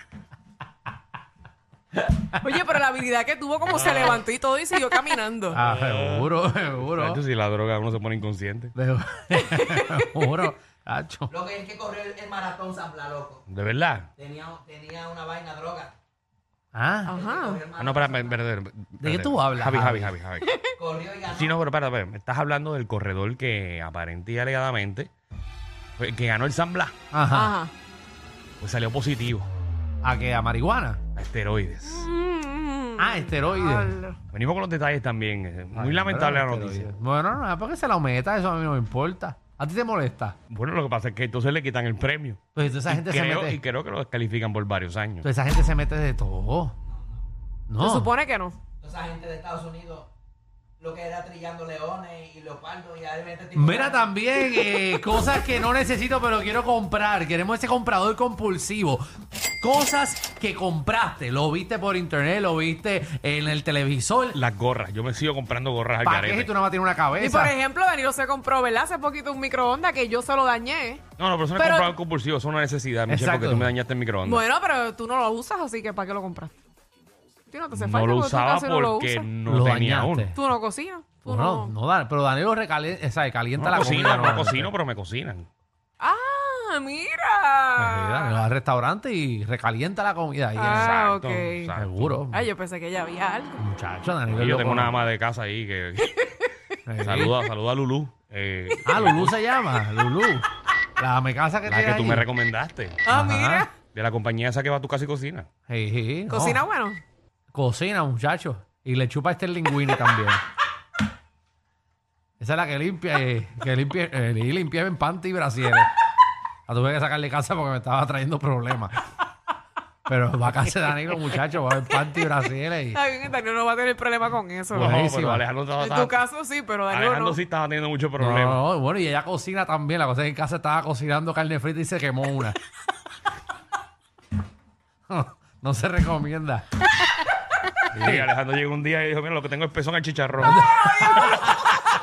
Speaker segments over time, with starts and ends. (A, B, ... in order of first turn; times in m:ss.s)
0:02.4-0:05.6 A
0:03.7-0:04.2 B
0:05.5-0:07.2 C
0:05.6-0:08.7 B
0:08.7-0:11.3 C
0:09.4-0:10.1 A
0:11.4-0:13.4 D
0:13.5-0:14.1 B
0:14.2-0:15.9 D
0:16.7-0:17.1 C
0:17.1-0:17.7 A
0:17.1-0:18.3 D
0:17.8-0:20.6 B
0:19.0-0:20.1 C
0:20.5-0:20.7 A
0:20.8-0:21.4 D
0:21.3-0:25.1 B
0:26.0-0:26.9 B
0:27.1-0:27.6 C
0:27.3-0:27.7 A
0:28.6-0:29.5 B
0:30.0-0:31.0 C
0:31.1-0:32.0 B
0:31.9-0:34.2 A
0:33.0-0:34.0 C
0:34.3-0:36.9 B
0:35.7-0:40.4 C
0:40.5-0:45.2 B
0:42.6-0:43.6 C
0:45.2-0:46.7 C
0:47.7-0:48.1 C
0:47.8-0:48.6 A
0:48.8-0:50.1 D
0:50.8-0:54.0 D
0:53.5-0:59.0 C
0:59.6-1:04.4 C
1:04.3-1:06.5 B
1:06.0-1:07.5 C
1:07.2-1:11.0 A
1:11.2-1:14.4 B
1:11.6-1:11.9 A
1:13.1-1:13.7 C
1:14.2-1:16.5 A
1:17.5-1:19.3 A
1:17.7-1:20.3 B
1:19.4-1:20.4 C
1:20.3-1:21.7 A
1:21.2-1:24.7 C
1:23.6-1:25.5 B
1:26.0-1:28.4 A
1:27.8-1:30.9 C
1:30.5-1:31.7 A
1:30.7-1:32.2 B
1:31.8-1:32.4 C
1:32.3-1:33.6 A
1:33.6-1:35.1 C
1:34.3-1:36.2 B
1:36.9-1:37.4 C
1:37.0-1:39.4 B
1:38.8-1:40.4 C
1:41.0-1:42.3 C
1:41.6-1:43.0 B
1:43.1-1:43.8 A
1:43.1-1:43.7 C
1:43.9-1:45.5 B
1:45.7-1:46.6 C
1:46.3-1:47.0 A
1:47.5-1:50.4 C
1:52.4-1:55.9 C
1:56.7-1:59.0 C
2:00.0-2:03.0 C
2:02.9-2:05.0 A
2:04.7-2:05.4 C
2:04.8-2:06.2 B
2:05.8-2:07.4 A
2:06.9-2:08.6 B
2:08.2-2:12.6 C
2:15.1-2:16.7 C
2:17.9-2:18.3 C
2:18.0-2:21.5 B
2:20.4-2:21.6 C